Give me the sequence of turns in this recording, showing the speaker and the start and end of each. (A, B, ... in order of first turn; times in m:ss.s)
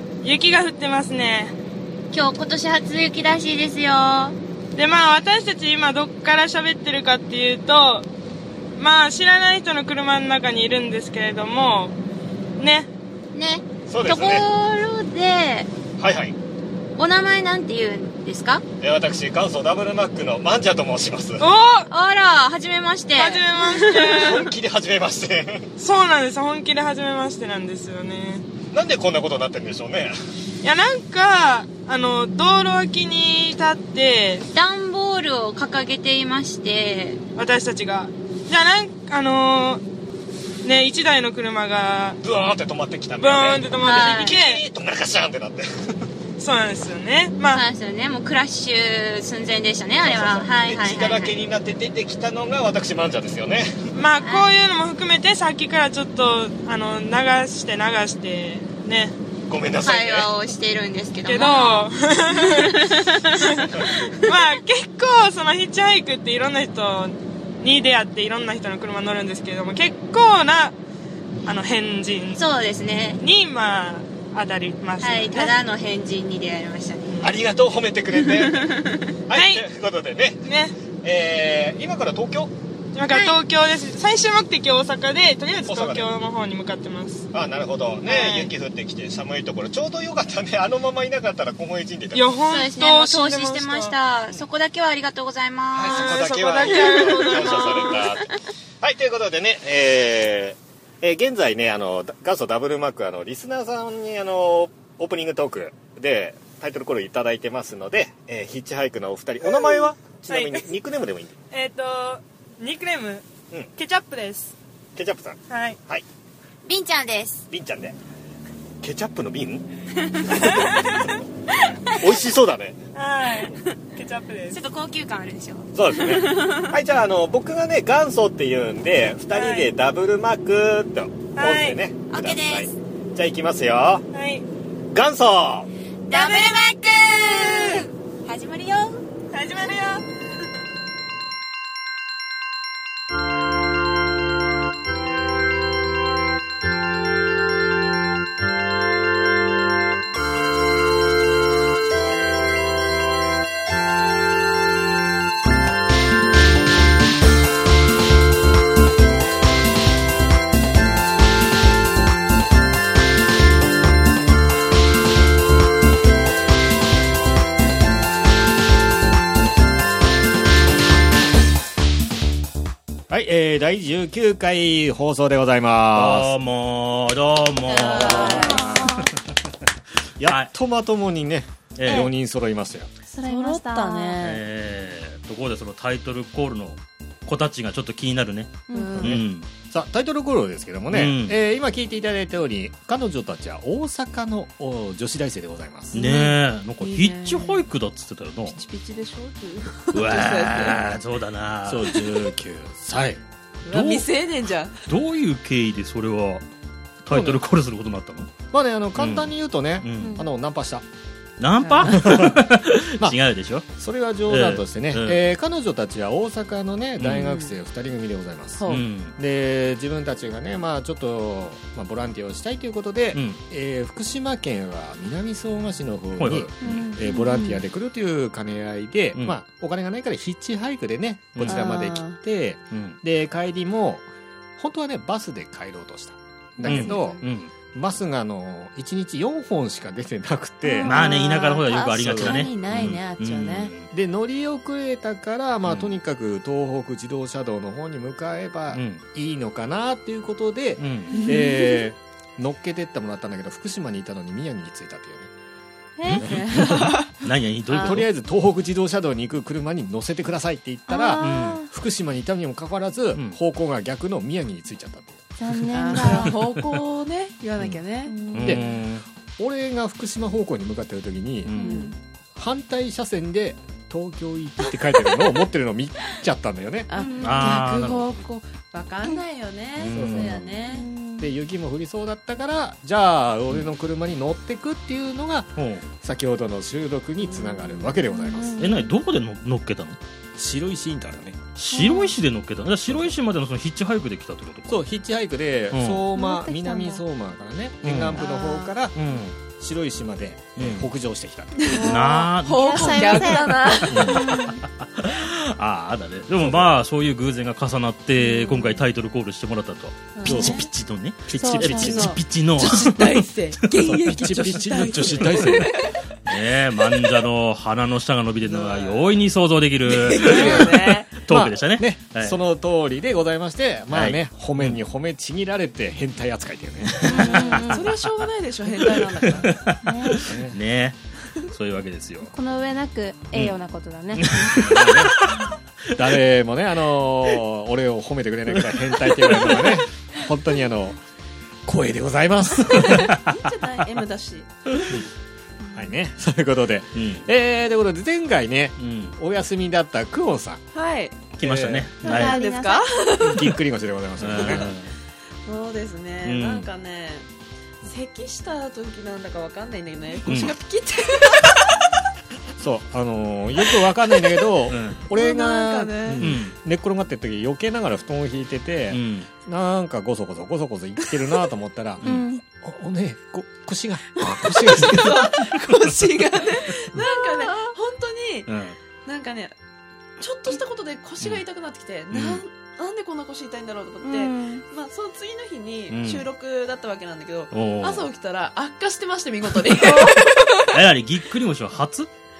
0:00.2-0:01.5 A
0:02.1-0:04.3 B
0:04.8-0:08.0 A
0:08.8-0:12.0 A
0:12.6-0:12.9 A
0:13.3-0:15.7 B
0:13.9-0:14.4 C
0:16.0-0:16.4 C
0:17.0-0:18.6 B
0:18.8-0:21.4 C
0:21.4-0:21.9 A
0:21.9-0:24.2 B
0:23.1-0:24.5 A
0:24.0-0:25.7 C
0:25.8-0:28.4 A
0:28.7-0:30.1 C
0:30.6-0:34.4 A
0:34.5-0:37.2 B
0:37.4-0:39.8 A
0:40.6-0:42.2 A
0:42.2-0:46.0 C
0:43.2-0:44.6 A
0:43.8-0:44.4 B
0:46.4-0:47.6 A
0:47.4-0:51.4 B
0:50.0-0:53.9 C
0:53.9-0:59.1 A
0:54.2-0:54.5 B
0:59.5-1:00.3 C
0:59.8-1:04.5 B
1:01.2-1:10.8 A
1:11.4-1:12.4 A
1:12.3-1:13.2 B
1:13.2-1:15.6 A
1:15.0-1:17.3 B
1:17.2-1:22.5 C
1:18.4-1:19.0 B
1:19.3-1:19.6 A
1:20.4-1:20.7 A
1:22.9-1:27.3 A
1:23.1-1:23.4 B
1:25.6-1:26.1 C
1:27.3-1:32.4 C
1:28.0-1:28.5 A
1:32.1-1:34.0 A
1:32.4-1:37.7 B
1:35.7-1:51.4 C
1:35.8-1:38.1 A
1:49.5-1:50.6 A
1:51.5-1:53.2 A
1:53.8-1:54.5 A
1:54.9-1:56.0 C
1:55.5-1:55.8 A
1:56.6-1:57.4 B
1:57.5-1:58.0 C
1:58.8-1:59.6 C
2:00.2-2:01.1 A
2:00.3-2:01.2 C
2:01.9-2:02.8 C
2:02.9-2:04.6 A
2:04.5-2:05.7 B
2:05.7-2:14.0 C
2:09.3-2:09.7 A
2:11.3-2:11.8 A
2:12.1-2:12.7 B
2:14.1-2:14.4 A
2:14.9-2:15.7 C
2:16.1-2:19.0 B
2:16.1-2:17.9 A
2:19.3-2:20.0 A
2:53.1-2:56.3 C
2:55.9-2:59.1 D
2:57.8-2:58.7 E
2:57.9-2:59.1 F
2:58.1-2:58.7 C
3:00.2-3:02.9 C
3:00.2-3:00.5 D
3:01.8-3:02.1 D
3:03.1-3:04.4 E
3:03.2-3:04.2 F
3:04.2-3:09.5 D
3:08.7-3:09.1 F
3:08.7-3:09.2 E
3:09.0-3:16.0 C
3:10.9-3:11.4 D
3:15.9-3:18.6 D
3:16.0-3:16.3 F
3:16.8-3:17.7 E
3:18.5-3:20.9 E
3:19.9-3:22.2 D
3:21.6-3:23.2 C
3:23.6-3:24.8 E
3:23.7-3:24.1 D
3:24.9-3:26.4 D
3:27.0-3:28.3 D
3:27.1-3:27.4 C
3:28.5-3:30.8 C
3:29.0-3:30.2 D
3:31.4-3:33.7 D
3:31.6-3:31.9 E
3:31.8-3:32.4 C
3:33.7-3:54.0 C
3:34.3-3:35.2 D
3:37.0-3:37.4 D
3:37.2-3:37.5 E
3:38.6-3:38.8 E
3:38.7-3:39.2 D
3:43.1-3:43.4 D
3:46.2-3:46.9 D
3:46.6-3:47.1 F
3:47.0-3:47.6 E
3:51.3-3:51.8 D
3:51.5-3:52.2 E
3:52.7-3:53.0 D
3:54.6-4:01.0 C
3:56.6-3:57.2 E
3:56.6-3:57.5 D
4:00.6-4:03.7 E
4:00.8-4:01.6 F
4:00.8-4:03.9 D
4:01.9-4:02.5 C
4:03.9-4:15.3 C
4:05.6-4:05.9 D
4:08.7-4:09.0 D
4:10.8-4:11.3 D
4:11.1-4:11.8 E
4:16.0-4:16.2 F
4:16.0-4:18.1 D
4:16.1-4:17.0 C
4:16.3-4:17.1 E
4:17.7-4:18.0 E
4:17.7-4:25.2 C
4:20.9-4:21.7 F
4:21.2-4:21.6 D
4:25.4-4:26.4 F
4:25.7-4:28.2 E
4:28.1-4:28.8 F
4:28.3-4:29.0 D
4:28.4-4:28.6 C
4:29.4-4:31.6 C
4:31.4-4:31.7 D
4:31.5-4:32.0 F
4:31.6-4:31.9 E
4:32.4-4:36.9 C
4:36.9-4:40.9 E
4:37.0-4:37.6 F
4:37.2-4:38.1 D
4:39.8-4:40.4 D
4:39.9-4:40.6 C
4:40.6-4:41.3 F
4:41.2-4:48.6 C
4:45.6-4:45.9 D
4:47.2-4:48.0 E
4:48.1-4:48.9 F
4:48.6-4:50.0 D
4:50.4-4:51.4 C
4:51.6-4:54.8 D
4:51.7-4:52.1 F
4:52.9-4:53.2 C
4:54.7-4:59.0 C
4:55.7-4:56.0 D
4:56.1-4:57.0 F
4:57.8-4:58.2 D
4:58.2-4:58.7 E
4:58.9-4:59.4 D
4:59.5-5:02.0 C
5:00.6-5:00.9 D
5:01.6-5:04.2 E
5:01.7-5:13.3 D
5:01.7-5:04.6 F
5:03.9-5:04.3 C
5:06.4-5:06.7 C
5:08.2-5:08.8 F
5:10.1-5:10.6 E
5:10.2-5:10.6 C
5:10.3-5:10.5 F
5:11.3-5:12.2 C
5:11.3-5:12.1 F
5:11.8-5:15.9 E
5:13.8-5:15.8 C
5:14.7-5:22.4 D
5:18.4-5:19.1 E
5:19.8-5:21.1 E
5:20.2-5:20.6 C
5:21.3-5:27.6 C
5:23.9-5:24.8 D
5:26.9-5:27.9 D
5:27.0-5:28.0 F
5:27.0-5:29.6 E
5:28.8-5:32.3 D
5:29.8-5:30.3 F
5:30.2-5:30.6 C
5:32.3-5:34.6 F
5:34.1-5:36.0 D
5:34.4-5:35.2 C
5:35.9-5:41.0 C
5:38.6-5:39.8 D
5:41.6-5:43.1 C
5:42.6-5:43.3 D
5:42.7-5:44.8 E
5:44.7-5:45.0 D
5:45.7-5:50.6 C
5:46.9-5:47.3 D
5:48.8-5:49.2 D
5:50.7-5:51.2 E
5:51.4-5:52.4 D
5:51.4-5:51.9 C
5:52.0-5:52.9 F
5:52.0-5:53.5 E
5:53.2-5:54.7 C
5:54.2-5:54.9 D
5:54.3-5:54.8 E
5:55.4-5:57.2 E
5:56.2-5:56.7 D
5:57.8-6:01.9 E
6:00.2-6:00.6 D
6:02.6-6:12.0 C
6:04.7-6:05.0 D
6:05.1-6:06.2 E
6:06.2-6:06.5 D
6:08.9-6:09.3 D
6:12.0-6:12.3 D
6:12.0-6:12.4 F
6:12.6-6:15.4 C
6:14.2-6:18.5 E
6:17.0-6:17.7 F
6:18.5-6:18.8 D
6:19.0-6:19.5 E
6:20.2-6:30.8 E
6:22.1-6:22.4 D
6:24.0-6:24.6 F
6:25.9-6:26.3 D
6:27.5-6:28.0 D
6:29.8-6:30.2 F
6:30.6-6:32.1 D